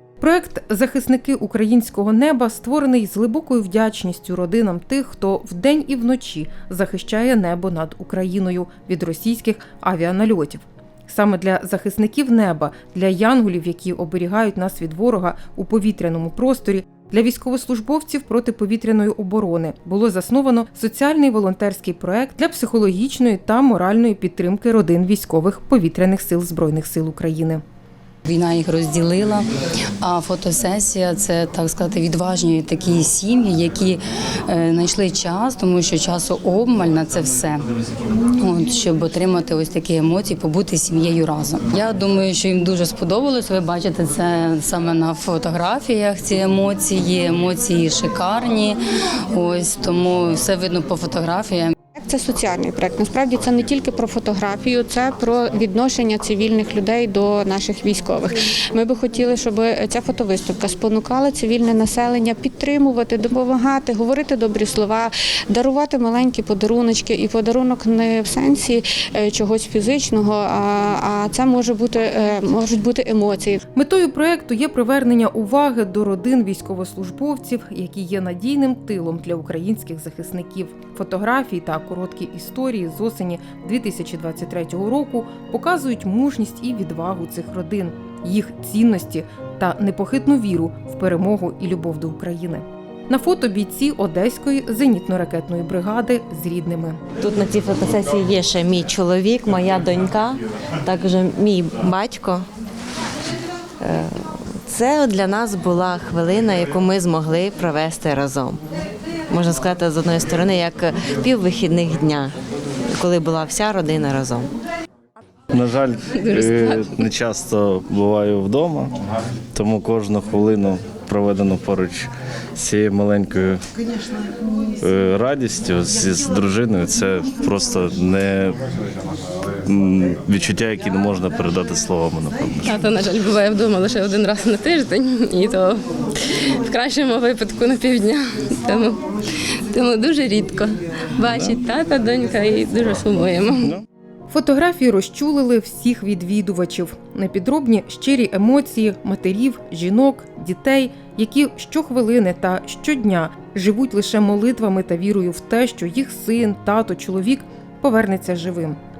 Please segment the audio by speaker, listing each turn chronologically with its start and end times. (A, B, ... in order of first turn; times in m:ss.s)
0:00.2-0:27.6 A
0:28.2-0:29.4 B
0:30.0-0:37.6 B
0:38.4-0:48.8 B
0:49.3-0:51.7 B
0:52.0-1:13.6 C
1:13.7-1:37.0 A
1:37.2-1:42.4 D
1:43.8-1:48.6 D
1:49.3-1:52.3 D
1:52.9-1:54.5 D
1:55.5-1:58.9 E
1:56.1-1:57.0 F
1:59.5-2:03.6 E
2:04.8-2:08.6 E
2:09.6-2:12.8 E
2:12.6-2:19.0 F
2:19.7-2:23.7 F
2:21.3-2:21.6 E
2:24.3-2:38.8 A